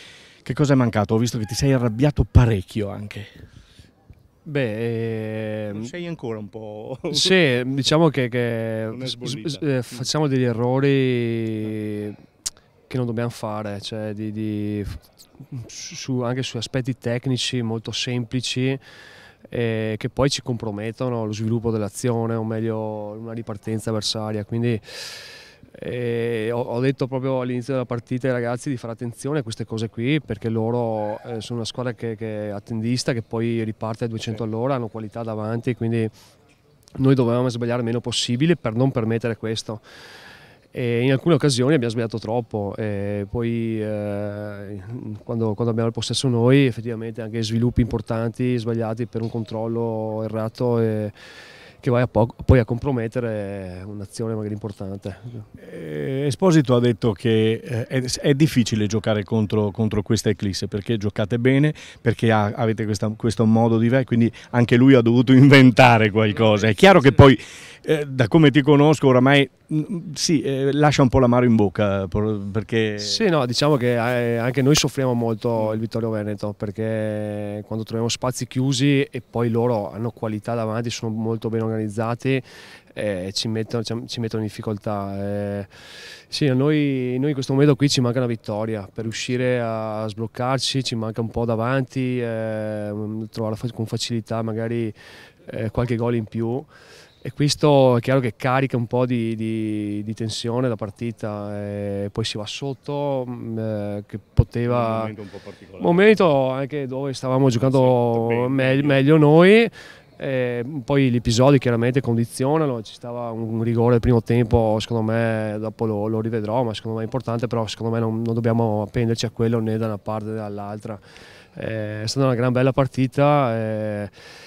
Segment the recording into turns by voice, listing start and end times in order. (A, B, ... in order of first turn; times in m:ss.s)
0:00.4-0:03.3 A
0:04.4-0:05.9 B
0:05.7-0:07.4 A
0:07.1-0:12.2 B
0:08.9-0:09.6 A
0:12.9-0:18.8 B
0:19.5-0:36.1 B
0:37.0-0:39.8 B
0:40.7-0:51.1 B
0:51.8-0:55.5 B
0:55.6-1:13.2 A
1:06.6-1:06.9 B
1:13.0-1:22.4 B
1:22.9-1:25.7 B
1:26.3-1:34.9 B
1:35.4-1:36.7 B
1:37.2-1:45.1 B
1:44.7-1:46.2 A
1:45.8-2:01.0 B
1:47.5-1:49.0 A
2:01.5-2:04.1 B